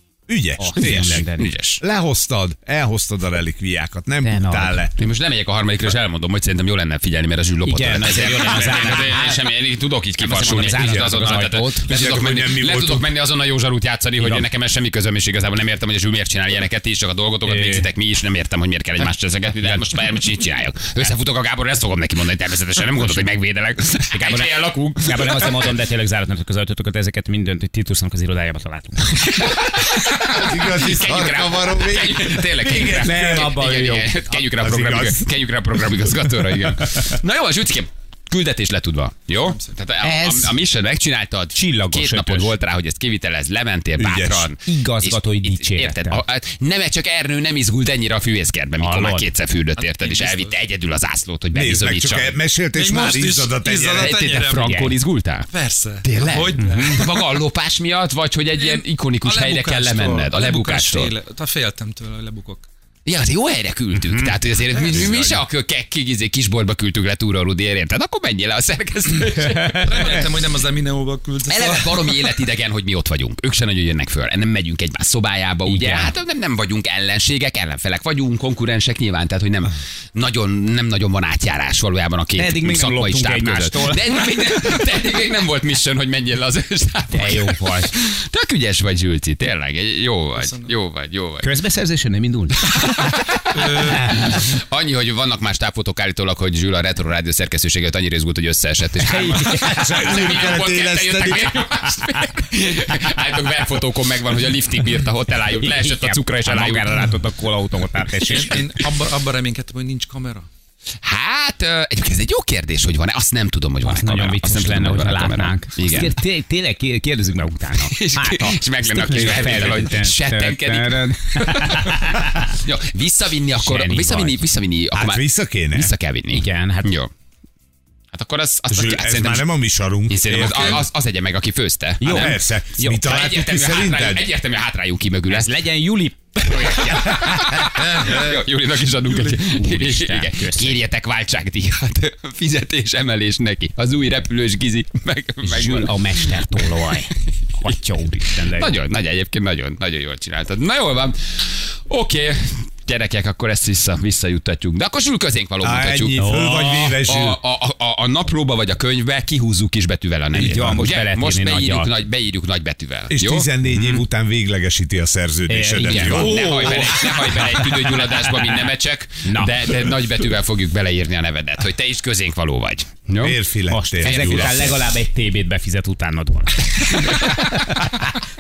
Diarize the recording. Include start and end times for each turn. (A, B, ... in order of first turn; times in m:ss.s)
0:00.3-0:01.3 A
0:00.6-0:01.5 B
0:00.8-0:01.8 C
0:01.8-0:04.9 A
0:04.2-0:04.8 B
0:05.0-0:25.8 C
0:07.6-0:09.5 B
0:10.2-0:11.9 B
0:10.4-0:13.1 A
0:14.2-0:14.5 B
0:17.4-0:17.9 B
0:23.0-0:23.3 B
0:24.1-0:29.3 B
0:29.2-0:52.4 C
0:30.3-0:33.6 A
0:32.9-0:34.4 B
0:34.6-0:35.2 A
0:39.4-0:39.7 D
0:40.0-0:40.6 B
0:41.6-0:42.6 B
0:44.0-0:44.5 A
0:44.6-0:46.2 B
0:48.8-0:49.3 B
0:49.8-0:50.6 D
0:51.5-0:54.2 A
0:52.7-0:54.9 D
0:54.0-0:55.5 C
0:54.6-0:55.0 B
0:55.5-0:57.2 D
0:56.0-1:01.1 C
0:56.6-0:57.0 B
0:58.6-1:02.7 D
1:03.1-1:10.2 C
1:04.0-1:04.4 B
1:04.7-1:05.4 D
1:09.7-1:12.4 D
1:11.5-1:31.5 C
1:15.7-1:16.2 B
1:22.4-1:24.4 B
1:27.1-1:27.9 B
1:30.4-1:30.7 D
1:31.4-1:33.0 B
1:33.5-1:47.1 C
1:33.5-1:34.1 D
1:33.8-1:34.3 B
1:39.1-1:40.2 B
1:39.1-1:41.6 A
1:45.5-1:48.7 B
1:48.3-1:50.5 D
1:51.0-1:56.1 C
1:53.8-2:02.5 B
1:57.8-2:01.9 C
2:02.5-2:07.1 C
2:03.6-2:04.5 B
2:04.9-2:05.9 A
2:06.3-2:06.9 B
2:08.1-2:09.5 C
2:08.7-2:10.9 A
2:10.1-2:12.4 C
2:12.0-2:13.1 B
2:12.1-2:14.3 A
2:13.0-2:15.5 C
2:15.3-2:16.9 B
2:16.4-2:27.0 C
2:17.8-2:18.2 D
2:19.4-2:20.8 B
2:25.4-2:28.7 B
2:28.5-2:36.2 C
2:35.6-2:37.4 A
2:36.2-2:37.0 B
2:37.1-2:43.5 C
2:40.3-2:41.9 B
2:43.1-2:46.5 A
2:43.7-2:44.0 B
2:45.5-2:47.0 B
2:45.8-2:53.4 C
2:46.4-2:47.1 D
2:49.2-2:49.6 B
2:53.2-2:54.8 A
2:53.7-2:58.1 B
2:54.0-2:54.9 C
2:57.0-2:57.4 C